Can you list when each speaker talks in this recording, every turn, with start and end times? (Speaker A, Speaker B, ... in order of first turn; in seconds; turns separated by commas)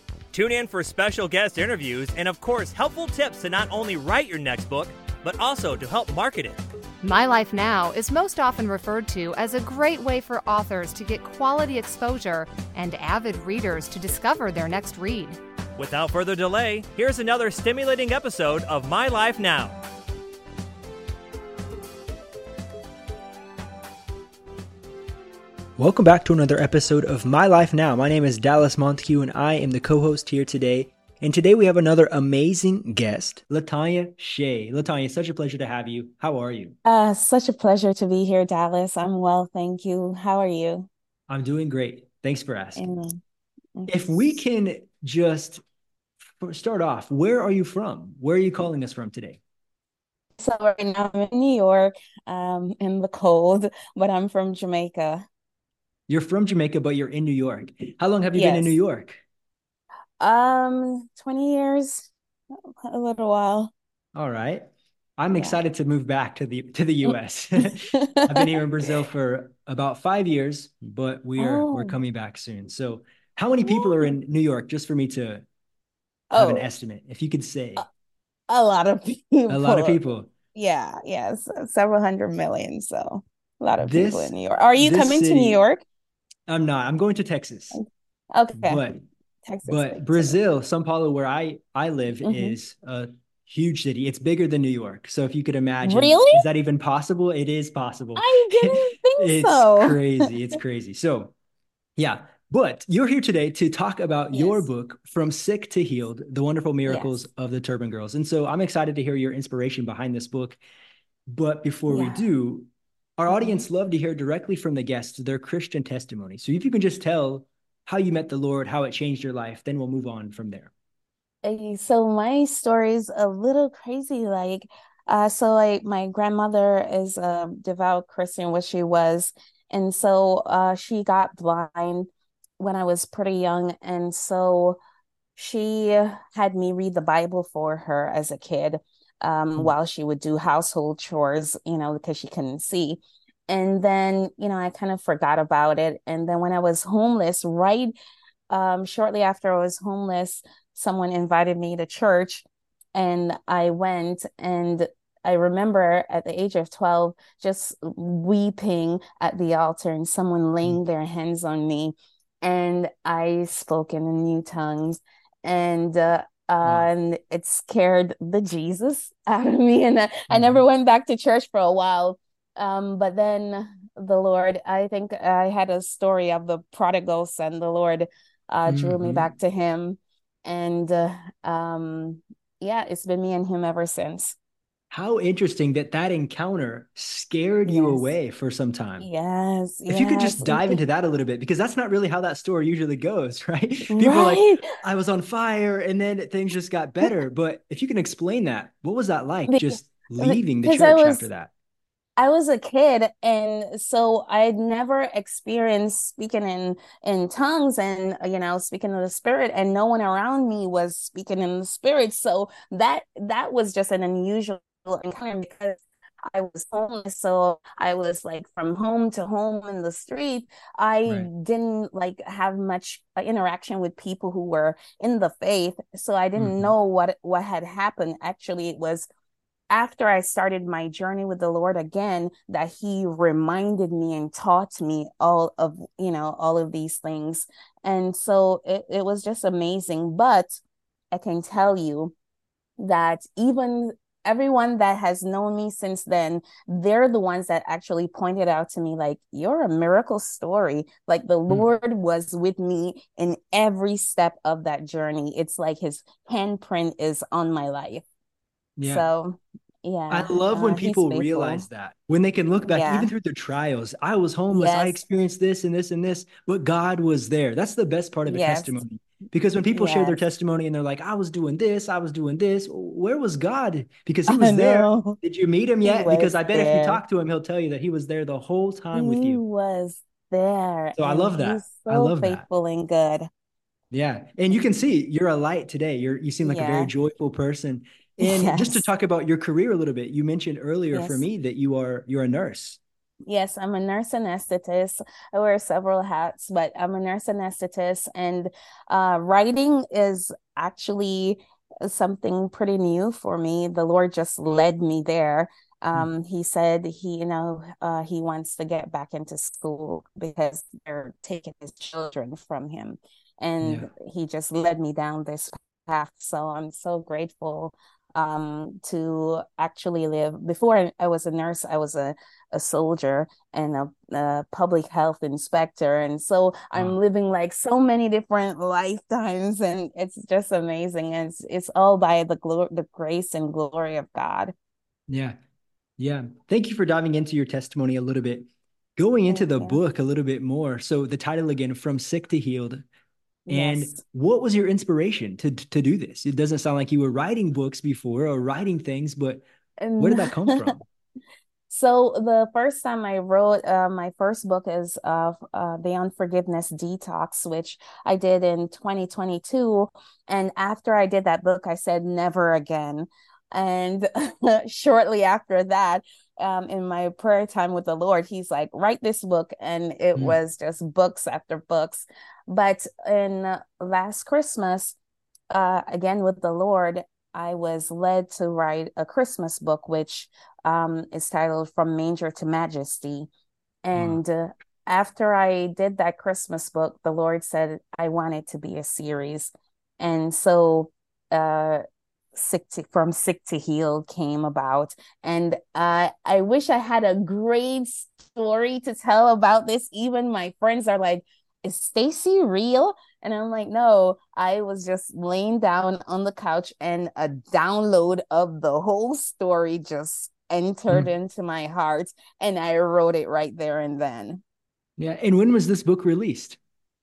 Speaker A: 0.3-6.6, Speaker B: 7.0-15.4, Speaker A: 15.8-19.8, Speaker C: 25.8-36.8, Speaker D: 36.9-40.9, Speaker C: 41.3-42.9, Speaker D: 42.8-43.2, Speaker D: 43.8-44.4, Speaker C: 43.9-45.6, Speaker C: 46.4-49.4, Speaker D: 50.4-55.2, Speaker C: 56.1-59.2, Speaker D: 58.3-58.8, Speaker D: 60.2-63.7, Speaker C: 64.2-64.7, Speaker C: 65.2-75.5, Speaker D: 67.1-68.9, Speaker D: 71.4-72.0, Speaker D: 73.7-74.1, Speaker D: 76.3-76.7, Speaker C: 76.3-77.8, Speaker D: 78.5-80.0, Speaker C: 79.5-80.3, Speaker D: 80.5-85.8, Speaker C: 83.8-85.6, Speaker C: 86.5-87.8, Speaker D: 87.7-88.8, Speaker C: 88.6-89.0, Speaker D: 89.5-90.3, Speaker C: 89.7-101.3, Speaker D: 92.2-92.6, Speaker D: 95.8-96.4, Speaker D: 98.2-100.3, Speaker C: 102.0-110.6, Speaker D: 104.3-104.7, Speaker D: 106.9-107.2, Speaker C: 111.3-120.7, Speaker D: 111.9-112.2, Speaker D: 113.3-113.6, Speaker D: 121.4-134.8, Speaker D: 135.4-147.9, Speaker D: 148.5-184.4, Speaker C: 170.3-170.6, Speaker C: 178.7-179.3, Speaker C: 184.9-189.1, Speaker D: 187.7-188.1, Speaker D: 189.0-190.8, Speaker C: 189.9-201.5, Speaker D: 193.9-194.7, Speaker D: 199.5-201.2, Speaker D: 202.2-229.1, Speaker C: 226.4-226.7, Speaker D: 229.7-240.6, Speaker D: 241.1-242.1, Speaker D: 242.8-258.0, Speaker C: 258.8-259.1, Speaker D: 258.8-261.6, Speaker C: 260.1-279.4, Speaker D: 262.7-263.1, Speaker D: 264.5-265.0, Speaker D: 268.3-268.8, Speaker D: 269.7-270.2, Speaker D: 274.3-275.2, Speaker D: 275.8-277.0, Speaker D: 278.9-283.3, Speaker C: 281.0-282.4, Speaker C: 283.9-292.8, Speaker D: 286.4-286.9, Speaker D: 288.2-288.9, Speaker D: 290.9-291.3, Speaker D: 293.3-334.5, Speaker C: 313.6-313.9, Speaker C: 335.1-335.4, Speaker C: 336.0-342.9, Speaker D: 339.3-339.8, Speaker D: 343.5-344.0, Speaker C: 343.5-349.4, Speaker D: 349.8-350.8, Speaker C: 350.0-350.8, Speaker D: 351.7-375.0, Speaker D: 375.5-383.3, Speaker D: 383.8-391.8, Speaker C: 383.9-384.2, Speaker D: 392.4-414.4, Speaker C: 415.0-416.6